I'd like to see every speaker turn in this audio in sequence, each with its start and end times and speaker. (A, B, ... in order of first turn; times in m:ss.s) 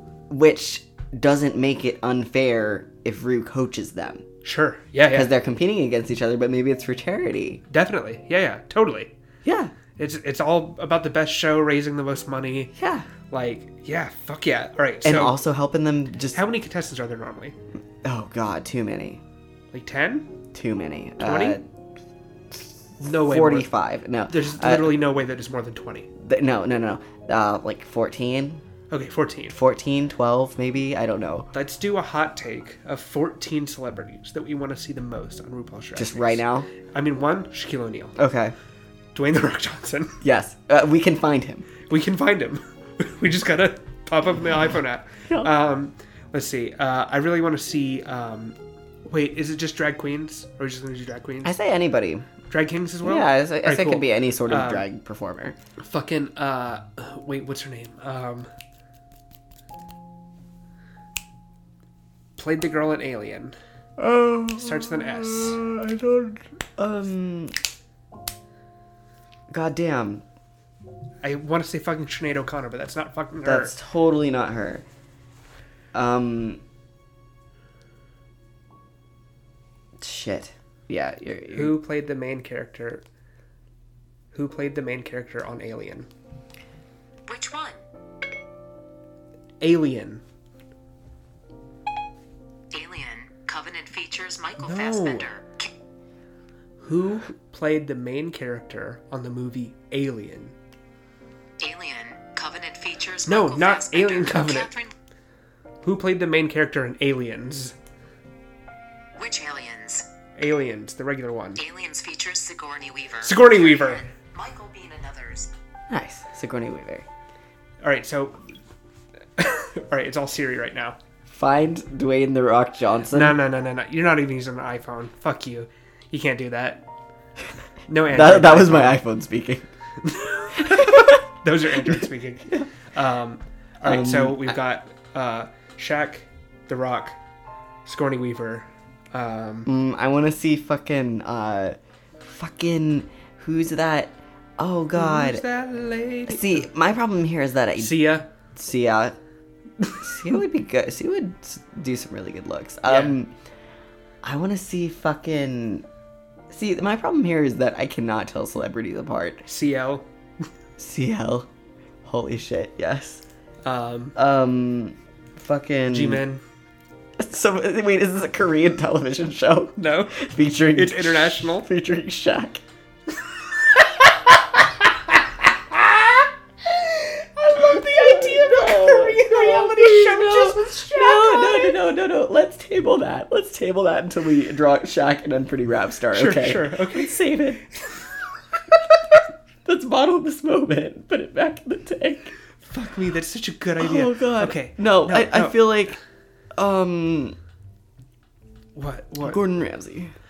0:00.3-0:04.2 A
0:04.4-0:05.3 B
0:05.1-0:07.6 A
0:07.7-0:09.1 B
0:09.4-0:09.7 A
0:10.0-0:12.7 B
0:12.8-0:13.1 A
0:13.3-0:15.4 B
0:15.0-0:16.4 A
0:16.3-0:17.6 B
0:18.0-0:19.2 A
0:19.7-0:20.3 B
0:20.5-0:21.6 A
0:21.2-0:21.6 B
0:22.5-0:25.0 A
0:23.0-0:23.7 B
0:24.3-0:26.1 B
0:26.2-0:28.6 A
0:28.9-0:29.6 B
0:29.5-0:31.5 A
0:31.5-0:38.2 B
0:36.0-0:36.7 A
0:38.2-0:38.6 A
0:39.1-0:40.2 B
0:40.2-0:41.7 A
0:41.9-0:48.6 B
0:49.1-0:51.6 B
0:51.4-0:52.3 A
0:52.5-0:54.9 B
0:53.0-0:55.6 A
0:55.8-0:58.5 B
1:02.4-1:03.6 B
1:04.0-1:07.6 A
1:04.6-1:05.6 B
1:09.5-1:10.2 A
1:11.2-1:13.8 B
1:13.4-1:14.8 A
1:15.9-1:16.6 A
1:20.0-1:21.8 A
1:21.5-1:23.0 B
1:24.3-1:26.1 B
1:27.3-1:27.8 C
1:29.6-1:30.2 B
1:32.7-1:35.7 C
1:34.6-1:35.3 B
1:36.8-1:40.6 B
1:41.6-1:44.9 C
1:43.3-1:44.7 B
1:45.8-1:47.8 B
1:49.2-1:50.1 C
1:50.4-1:51.6 B
1:51.6-1:55.5 C
1:53.2-1:54.0 B
1:55.9-1:57.1 A
1:57.8-1:58.4 B
1:59.4-2:01.0 B
2:01.3-2:03.4 A
2:03.1-2:06.8 B
2:07.9-2:09.0 B
2:08.1-2:09.7 A
2:10.0-2:17.2 B
2:10.6-2:11.2 A
2:11.8-2:12.7 A
2:13.8-2:14.6 A
2:17.8-2:19.7 B
2:19.7-2:25.4 A
2:24.9-2:26.7 B
2:26.3-2:28.0 A
2:27.8-2:28.3 B
2:28.6-2:29.2 A
2:30.0-2:33.3 A
2:32.8-2:33.2 B
2:34.2-2:35.9 A
2:36.5-2:39.4 A
2:39.4-2:40.1 B
2:40.8-2:41.5 A
2:42.0-2:43.2 A
2:43.6-2:44.2 B
2:44.2-2:46.2 A
2:45.9-2:46.4 B
2:47.2-2:52.6 A
2:49.8-2:50.2 B
2:50.7-2:51.7 B
2:53.7-2:54.1 B
2:55.7-3:01.8 B
2:57.4-3:07.6 A
3:06.1-3:07.2 B
3:09.1-3:12.3 A
3:12.6-3:16.0 B
3:13.8-3:16.0 A
3:16.6-3:17.4 A
3:18.8-3:19.4 B
3:19.2-3:20.1 A